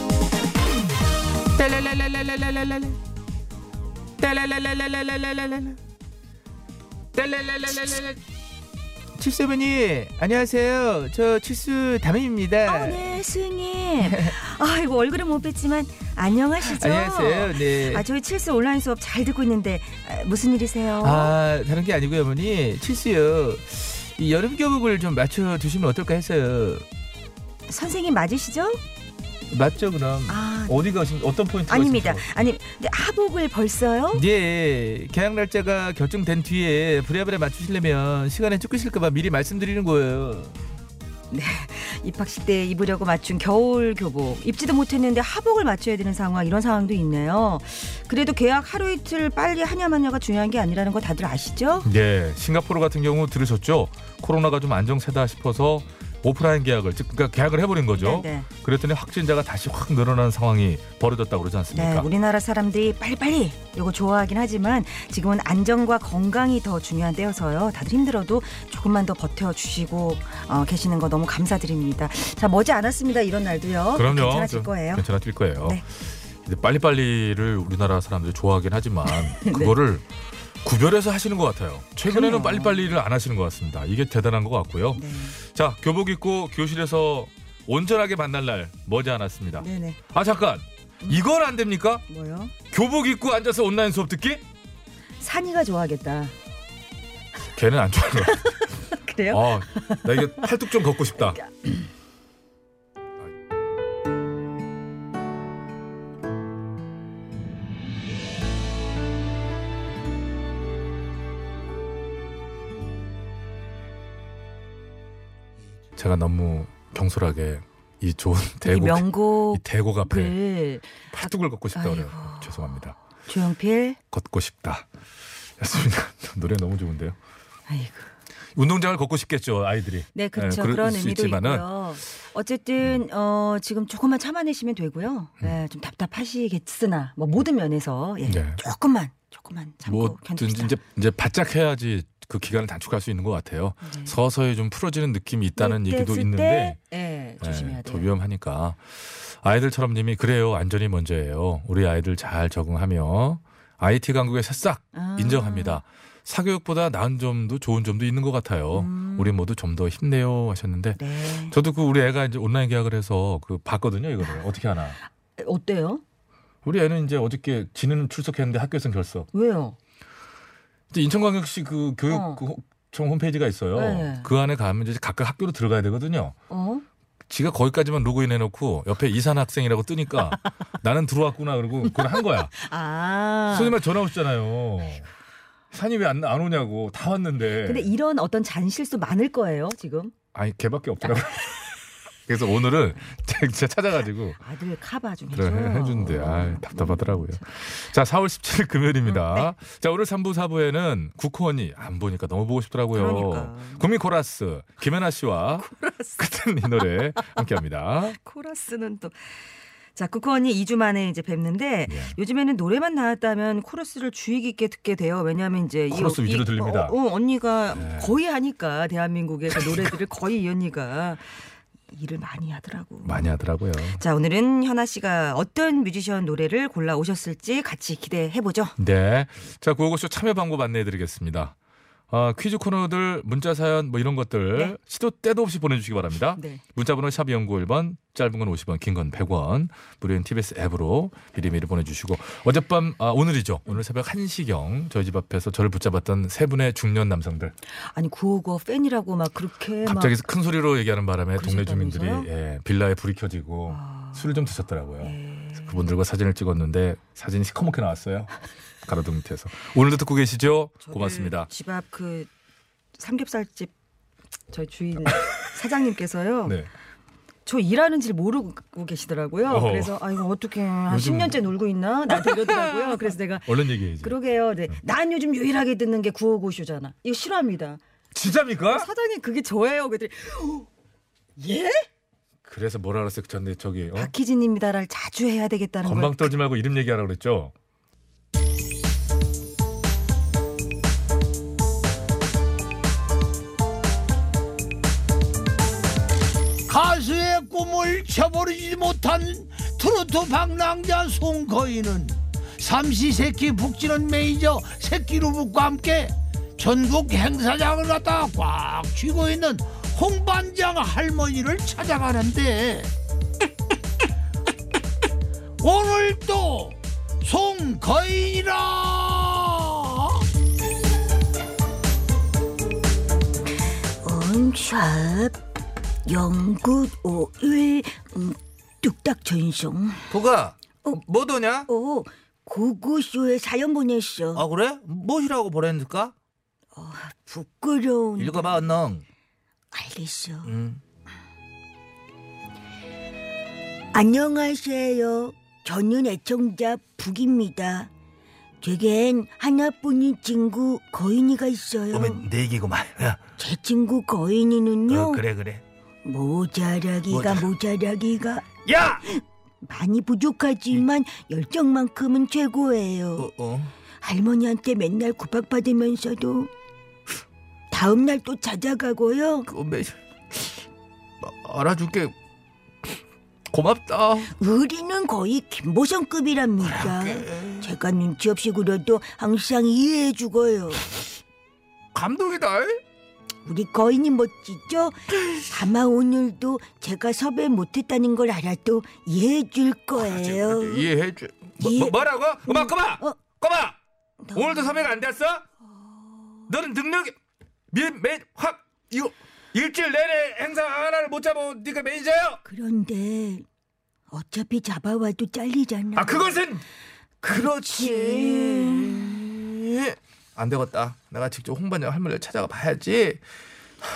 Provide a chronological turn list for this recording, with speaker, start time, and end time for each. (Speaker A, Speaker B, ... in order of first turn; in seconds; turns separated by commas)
Speaker A: 1.6-2.9, Speaker A: 4.2-5.8, Speaker A: 7.2-8.2, Speaker B: 9.2-13.0, Speaker C: 12.7-21.3, Speaker B: 16.8-18.0, Speaker B: 21.1-23.2, Speaker A: 21.7-26.8, Speaker B: 24.2-26.3, Speaker C: 27.7-28.8, Speaker A: 29.5-32.3, Speaker C: 30.3-30.9, Speaker C: 31.7-34.2, Speaker A: 34.1-40.5, Speaker C: 41.3-51.9, Speaker A: 51.8-62.1, Speaker C: 58.0-58.5, Speaker C: 61.7-75.0, Speaker A: 73.9-80.0, Speaker C: 79.1-79.7, Speaker A: 80.6-92.0, Speaker C: 82.1-82.9, Speaker C: 84.9-85.3, Speaker C: 89.6-90.0, Speaker C: 92.1-92.5, Speaker A: 92.7-94.4, Speaker C: 95.2-96.3, Speaker A: 97.5-98.7, Speaker C: 98.5-100.0, Speaker A: 99.3-101.4, Speaker A: 116.0-120.4, Speaker C: 118.6-124.0, Speaker A: 121.1-123.0, Speaker A: 124.1-124.8, Speaker A: 125.6-127.2, Speaker C: 127.7-128.1, Speaker A: 128.6-131.7, Speaker C: 130.1-140.8, Speaker A: 138.2-138.6, Speaker A: 139.8-146.8, Speaker C: 143.8-144.2, Speaker C: 145.6-148.1, Speaker A: 147.4-165.0, Speaker C: 154.9-155.8, Speaker C: 158.7-159.3, Speaker C: 161.0-161.5, Speaker C: 165.4-166.0, Speaker A: 166.6-169.3, Speaker C: 169.3-169.8, Speaker A: 170.9-176.3, Speaker C: 172.1-172.4, Speaker C: 173.7-174.3, Speaker C: 176.5-176.8, Speaker A: 177.3-182.5, Speaker C: 182.6-183.7, Speaker A: 183.5-185.1, Speaker A: 185.7-187.9, Speaker C: 187.6-190.1, Speaker A: 190.3-191.6, Speaker A: 192.3-194.4, Speaker C: 194.4-197.4, Speaker A: 195.3-205.7, Speaker C: 199.1-199.5, Speaker C: 202.9-203.8, Speaker C: 205.6-206.2, Speaker A: 206.2-208.2, Speaker C: 208.2-209.4, Speaker C: 209.9-223.3, Speaker A: 211.9-212.1, Speaker A: 215.9-216.9, Speaker A: 217.7-218.1, Speaker A: 219.6-219.9, Speaker A: 223.0-224.0, Speaker C: 224.0-228.7, Speaker A: 228.8-231.5, Speaker A: 232.1-247.5, Speaker C: 236.4-236.6, Speaker C: 247.8-250.2, Speaker A: 249.8-258.3, Speaker C: 251.4-252.3, Speaker C: 253.7-254.3, Speaker C: 255.0-255.8, Speaker A: 258.8-261.5, Speaker C: 260.8-262.3, Speaker C: 262.9-263.7, Speaker C: 264.5-266.6, Speaker C: 267.4-277.8, Speaker A: 269.5-270.0, Speaker A: 270.9-271.4, Speaker A: 272.1-274.1, Speaker A: 278.1-278.9, Speaker C: 278.7-280.7, Speaker C: 281.4-281.9, Speaker A: 282.4-284.1, Speaker C: 283.9-286.3, Speaker A: 285.8-287.5, Speaker D: 296.7-312.9, Speaker D: 315.6-320.1, Speaker E: 324.0-325.4, Speaker E: 326.1-330.1, Speaker B: 330.1-331.7, Speaker E: 331.7-334.4, Speaker B: 334.3-336.1, Speaker E: 336.7-338.6, Speaker B: 338.2-339.0, Speaker E: 339.7-340.5, Speaker B: 340.4-340.8, Speaker E: 343.9-347.9, Speaker E: 348.6-352.3, Speaker B: 351.9-353.2, Speaker E: 353.4-355.2, Speaker B: 354.9-355.6, Speaker E: 356.0-358.5, Speaker B: 357.1-357.5, Speaker B: 358.7-359.0, Speaker E: 359.1-363.3, Speaker B: 363.2-363.7, Speaker E: 364.0-366.5, Speaker E: 367.7-369.5, Speaker B: 369.5-369.9, Speaker B: 371.2-372.1, Speaker B: 373.5-374.3, Speaker A: 373.5-374.3, Speaker E: 374.4-381.0, Speaker B: 376.6-377.7, Speaker B: 381.9-382.8, Speaker E: 383.4-385.0, Speaker E: 385.5-390.9, Speaker A: 390.0-391.5, Speaker B: 391.6-393.8, Speaker E: 391.6-391.9, Speaker E: 392.5-393.1, Speaker E: 394.2-394.9, Speaker B: 394.3-395.4, Speaker E: 395.6-396.4, Speaker B: 396.5-397.1, Speaker B: 397.7-402.4, Speaker A: 397.9-398.3, Speaker E: 402.4-403.4, Speaker E: 404.1-406.4, Speaker B: 406.0-406.6, Speaker E: 407.2-409.2, Speaker B: 407.2-413.2